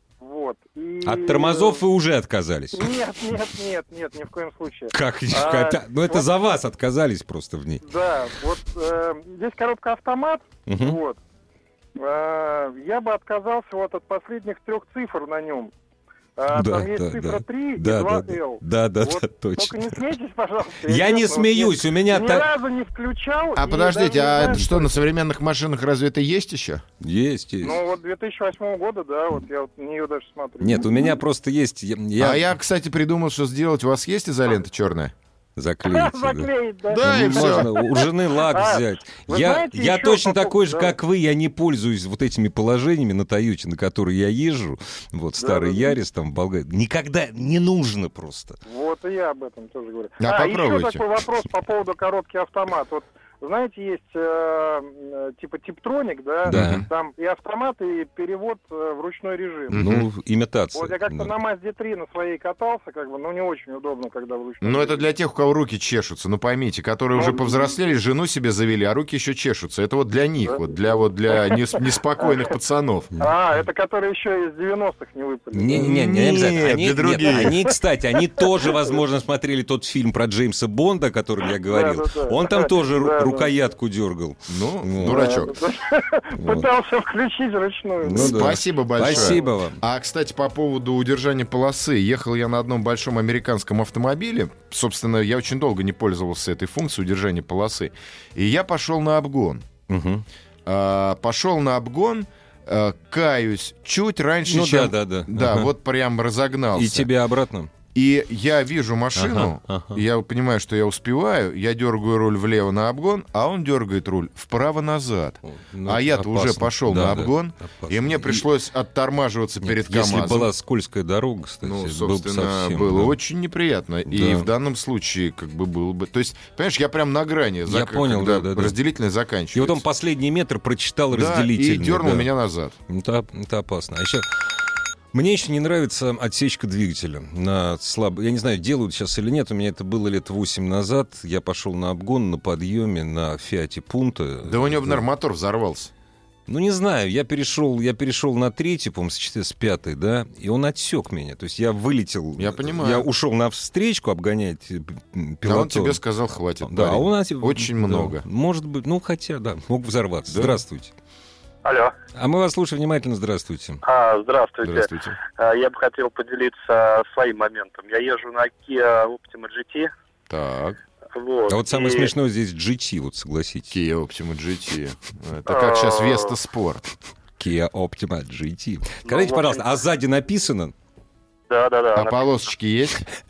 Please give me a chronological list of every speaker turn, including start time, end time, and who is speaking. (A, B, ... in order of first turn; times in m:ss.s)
0:00.2-0:01.8 A
0:01.0-0:03.4 B
0:02.7-0:06.3 A
0:04.9-0:07.8 B
0:07.8-0:11.2 A
0:10.7-0:11.0 B
0:12.0-0:15.7 A
0:16.4-0:25.0 A
0:16.5-0:20.0 B
0:20.8-0:22.5 B
0:23.5-0:26.8 C
0:27.0-0:27.8 B
0:27.6-0:31.2 A
0:30.6-0:32.5 B
0:32.2-0:35.1 C
0:35.6-0:48.6 B
0:35.8-0:40.9 A
0:36.9-0:37.7 C
0:45.4-0:46.0 A
0:48.7-0:59.8 A
0:50.2-0:51.1 C
0:56.5-0:56.8 B
0:56.5-0:56.9 C
0:59.7-1:00.1 C
0:59.7-1:01.3 B
1:00.7-1:05.0 A
1:04.6-1:13.1 C
1:07.1-1:07.8 A
1:11.3-1:12.5 A
1:13.2-1:19.0 A
1:15.5-1:25.4 B
1:15.7-1:17.7 C
1:21.5-1:23.5 A
1:24.5-1:25.6 C
1:25.0-1:28.5 A
1:26.3-1:26.7 B
1:28.0-1:29.8 B
1:28.2-1:39.6 C
1:39.9-1:40.2 B
1:40.6-1:47.1 C
1:44.5-1:45.7 B
1:46.7-1:47.7 B
1:47.9-2:00.5 C
1:49.2-1:50.0 B
1:55.5-1:58.4 B
1:59.6-2:03.2 B
2:01.6-2:09.8 C
2:04.1-2:04.5 B
2:07.7-2:08.8 B
2:09.5-2:12.3 B
2:11.1-2:12.7 C
2:12.9-2:14.4 B
2:15.1-2:25.0 B
2:24.4-2:25.9 C
2:26.5-2:36.0 B
2:32.4-2:33.1 C
2:35.4-2:38.2 C
2:36.6-2:40.9 B
2:40.3-2:40.6 C
2:41.6-2:41.9 D
2:42.1-2:43.8 B
2:43.8-2:49.9 D
2:44.6-2:45.2 C
2:50.3-2:50.8 C
2:51.1-2:52.1 D
2:51.5-2:53.8 B
2:53.7-2:56.8 C
2:55.5-2:56.3 D
2:57.4-3:00.7 B
2:59.0-2:59.7 D
3:01.5-3:02.5 D
3:01.9-3:03.1 C